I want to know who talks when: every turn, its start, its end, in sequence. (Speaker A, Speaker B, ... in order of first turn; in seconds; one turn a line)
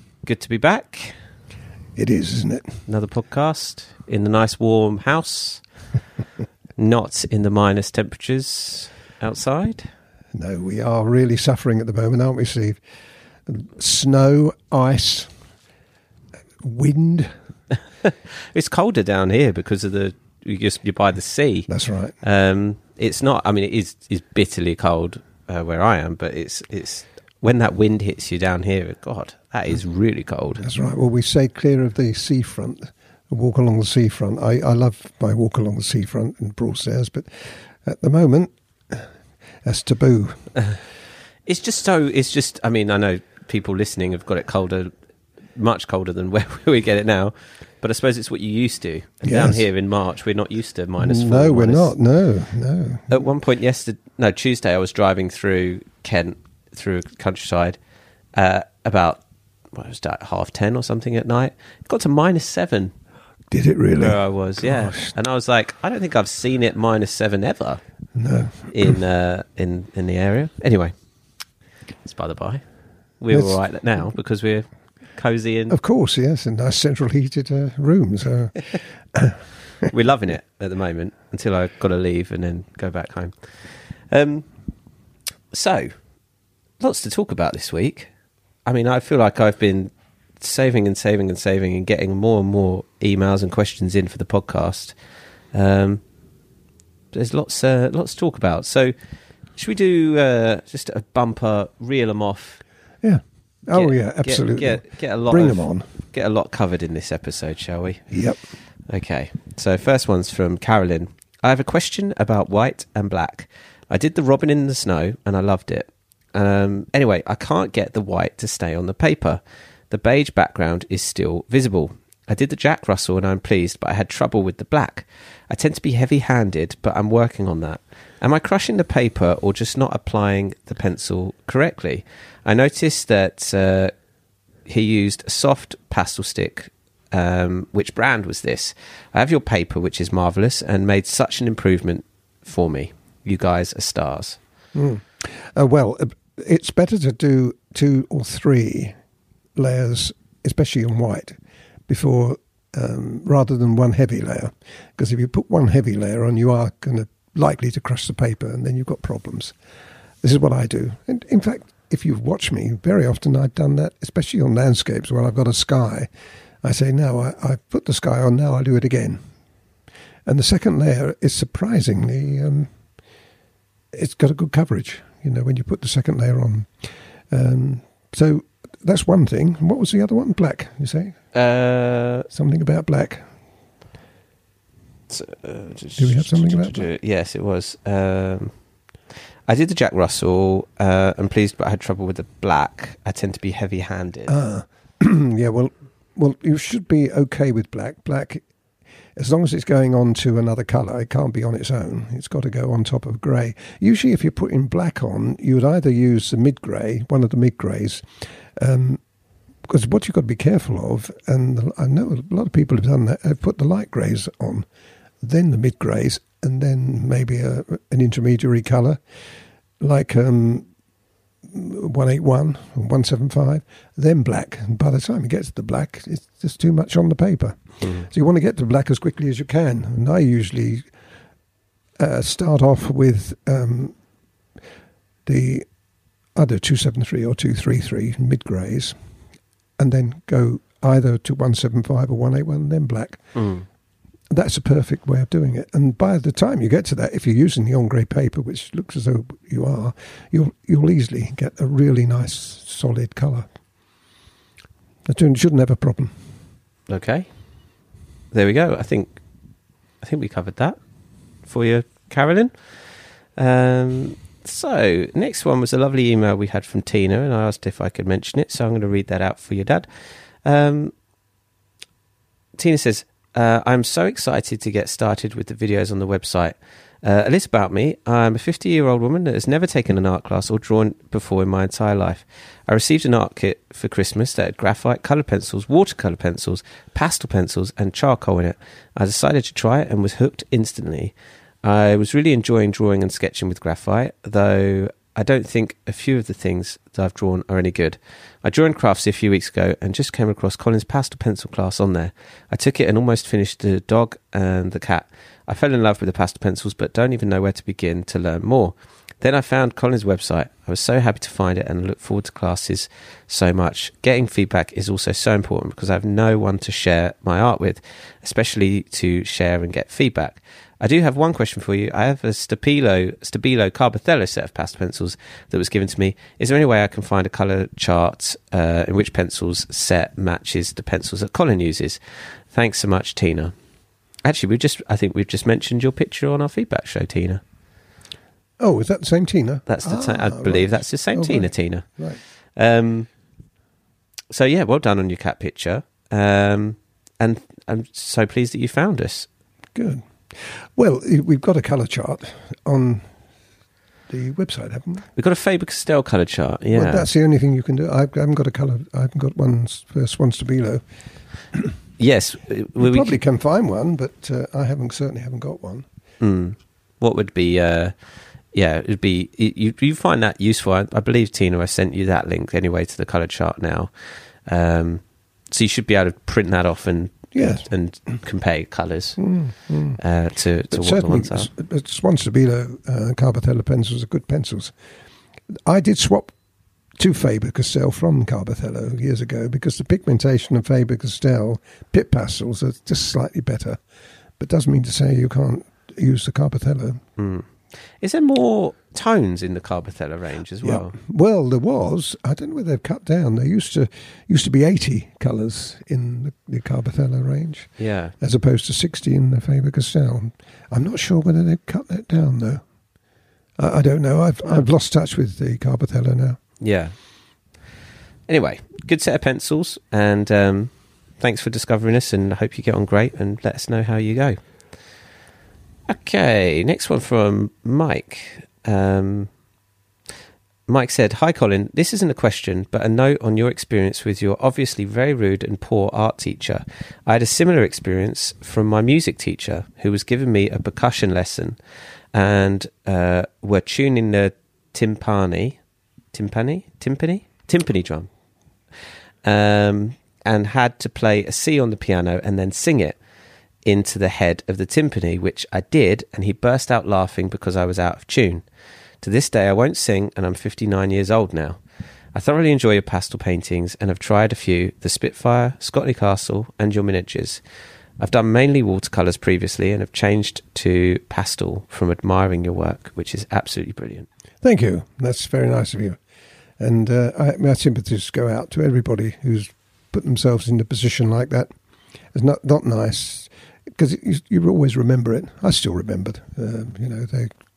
Speaker A: 0.2-1.2
Speaker B: 1.9-2.8
Speaker A: 2.9-5.6
Speaker A: 6.8-9.9
Speaker B: 10.3-12.8
Speaker B: 13.4-15.3
Speaker B: 16.6-17.3
Speaker A: 18.0-21.7
Speaker B: 21.7-22.1
Speaker A: 22.2-30.6
Speaker B: 30.6-39.1
Speaker B: 39.6-40.5
Speaker A: 41.5-44.9
Speaker A: 45.5-51.9
Speaker B: 49.2-49.6
Speaker B: 51.0-53.2
Speaker A: 53.1-57.8
Speaker A: 58.3-59.2
Speaker A: 59.7-62.9
Speaker B: 63.5-65.1
Speaker A: 64.0-67.8
Speaker B: 68.1-69.0
Speaker A: 68.7-70.9
Speaker A: 72.0-72.6
Speaker A: 73.2-75.8
Speaker B: 73.3-73.6
Speaker B: 75.7-79.9
Speaker A: 79.9-84.5
Speaker A: 85.5-85.9
Speaker A: 86.8-88.1
Speaker A: 88.7-94.9
Speaker A: 95.5-96.0
Speaker A: 97.1-98.9
Speaker A: 99.5-102.6
Speaker B: 103.0-105.9
Speaker A: 103.7-108.2
Speaker B: 108.1-108.4
Speaker A: 108.8-133.9
Speaker A: 134.7-144.4
Speaker B: 144.7-148.9
Speaker B: 149.6-159.6
Speaker B: 160.2-166.1
Speaker B: 166.6-169.2
Speaker B: 170.2-172.7
Speaker B: 173.9-181.2
Speaker A: 181.3-182.3
Speaker B: 182.3-183.2
Speaker A: 185.1-188.5
Speaker B: 186.0-186.8
Speaker A: 189.5-194.4
Speaker B: 194.3-198.4
Speaker B: 199.2-209.0
Speaker B: 209.7-214.7
Speaker B: 215.2-219.0
Speaker B: 219.8-220.7
Speaker B: 221.4-230.9
Speaker A: 227.8-228.1
Speaker B: 232.0-233.9
Speaker B: 235.2-235.7
Speaker B: 236.3-238.9
Speaker B: 239.8-243.2
Speaker A: 243.3-243.7
Speaker B: 244.3-253.5
Speaker B: 255.1-256.1
Speaker A: 256.9-257.3
Speaker A: 258.3-259.2
Speaker A: 260.0-260.8
Speaker A: 261.4-262.5
Speaker A: 263.4-269.9
Speaker A: 270.4-270.9
Speaker A: 272.6-332.0
Speaker A: 332.5-333.5
Speaker A: 334.2-337.4
Speaker B: 338.6-342.2
Speaker A: 339.6-343.1
Speaker A: 344.3-349.3
Speaker B: 349.7-353.1
Speaker B: 354.1-355.0
Speaker A: 355.1-357.1
Speaker B: 356.7-360.8
Speaker A: 362.0-363.2
Speaker B: 362.8-365.8
Speaker A: 366.2-367.9
Speaker A: 368.5-373.9
Speaker A: 374.4-379.2
Speaker B: 377.3-377.7
Speaker B: 379.2-380.0
Speaker A: 379.9-381.5
Speaker B: 380.7-384.7
Speaker B: 385.5-386.3
Speaker B: 387.0-393.8
Speaker B: 394.4-397.0
Speaker A: 397.2-400.9
Speaker B: 400.6-412.6
Speaker A: 407.8-408.1
Speaker B: 413.6-416.4
Speaker A: 416.6-416.9
Speaker A: 418.3-424.4
Speaker A: 425.9-429.3
Speaker A: 430.7-441.6
Speaker A: 442.1-445.6
Speaker A: 446.1-448.1
Speaker A: 449.2-453.0
Speaker A: 453.6-458.4
Speaker A: 459.0-461.6
Speaker A: 462.1-467.4
Speaker A: 468.0-474.1
Speaker B: 474.4-476.0
Speaker B: 476.6-481.5
Speaker B: 482.1-487.3